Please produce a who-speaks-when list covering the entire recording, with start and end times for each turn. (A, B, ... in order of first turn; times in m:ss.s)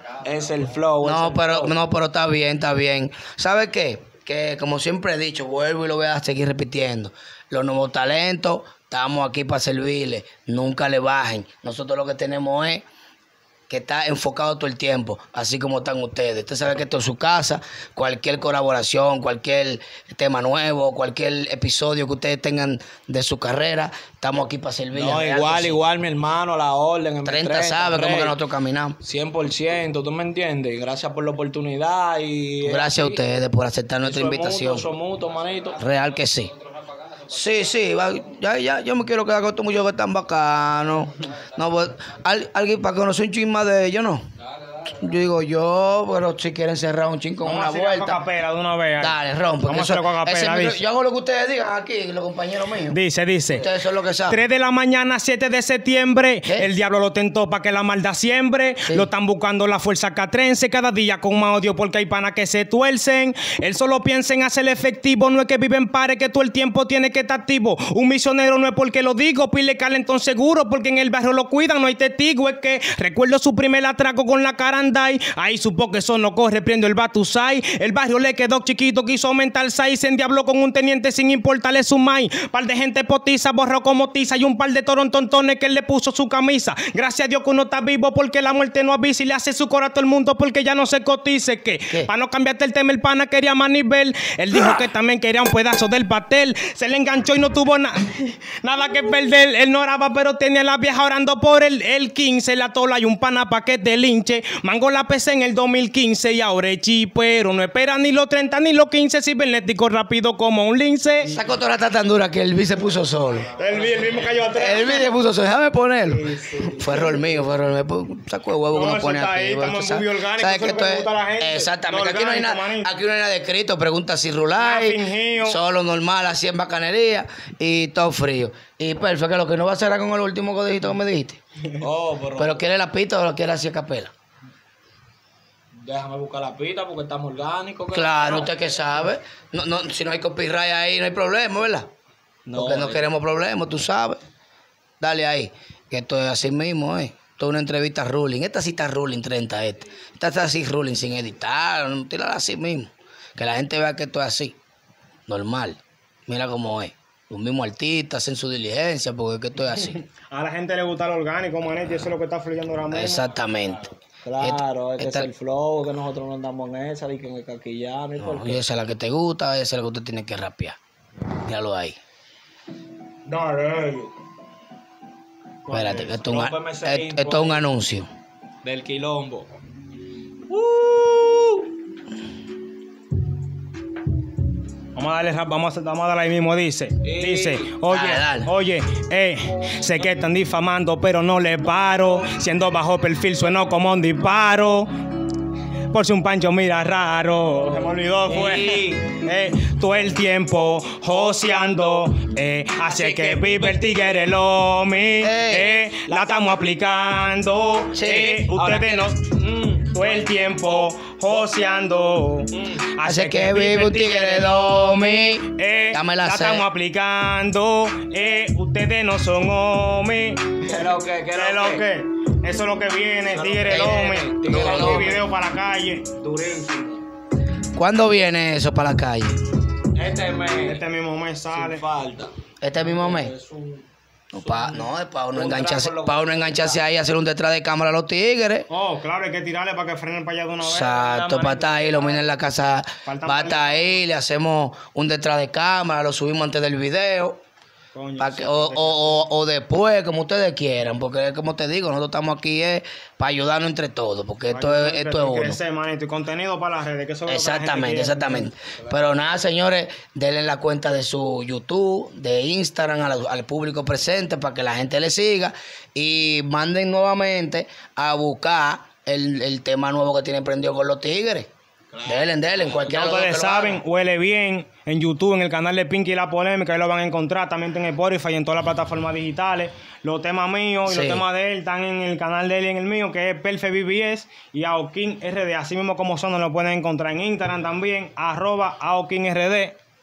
0:00.2-0:01.7 A
0:01.0-0:12.8 B
0:13.7-0:25.8 B
0:24.9-0:28.4 A
0:27.2-0:29.0 B
0:29.0-0:33.4 A
0:32.6-0:34.9 B
0:34.0-0:35.8 A
0:35.8-0:36.5 B
0:37.3-0:44.2 B
0:44.9-0:48.2 B
0:47.4-0:49.2 C
0:49.0-0:53.0 B
0:49.7-0:50.8 C
0:52.9-0:53.7 C
0:53.5-0:54.4 B
0:54.3-1:51.4 C
1:51.3-1:53.5 B
1:53.5-1:55.1 C
1:53.7-1:54.3 A
1:54.5-2:11.4 B
1:56.1-1:57.2 C
1:58.7-2:02.9 C
2:04.6-2:05.6 C
2:11.8-2:12.6 A
2:12.4-2:14.1 B
2:15.8-2:18.5 A
2:17.9-2:21.9 B
2:22.5-2:23.1 A
2:22.6-2:24.2 B
2:25.0-2:34.6 B
2:35.3-2:40.0 B
2:40.3-2:43.3 C
2:42.9-2:45.3 B
2:44.2-2:48.6 A
2:48.2-2:50.8 B
2:51.4-2:52.0 B
2:53.3-2:54.1 A
2:53.4-2:54.1 C
2:55.7-2:56.2 C
2:55.7-2:58.1 B
2:56.2-2:57.6 A
2:58.6-2:59.5 A
3:00.5-3:01.6 A
3:05.0-3:14.9 C
3:07.0-3:07.7 A
3:07.9-3:08.5 B
3:15.9-3:29.2 C
3:18.3-3:19.1 A
3:21.1-3:22.1 A
3:22.8-3:24.2 A
3:25.2-3:25.8 B
3:26.1-3:26.8 A
3:27.9-3:28.4 B
3:28.4-3:31.8 A
3:29.9-3:46.0 C
3:32.5-3:32.8 A
3:33.0-3:36.7 B
3:40.6-3:41.8 A
3:43.3-3:45.2 A
3:43.7-3:45.2 B
3:46.2-3:47.0 A
3:47.8-3:49.4 B
3:49.9-3:50.8 A
3:50.6-3:51.8 C
3:51.5-3:53.8 A
3:52.6-3:53.3 B
3:54.3-3:58.7 B
3:54.4-3:56.8 A
3:58.7-4:02.3 C
4:00.6-4:07.4 B
4:03.1-4:04.0 C
4:07.9-4:09.2 C
4:08.2-4:15.6 B
4:14.5-4:18.5 C
4:17.3-4:31.5 B
4:31.9-4:32.8 A
4:32.0-4:33.8 B
4:32.9-4:49.7 C
4:40.9-4:41.2 B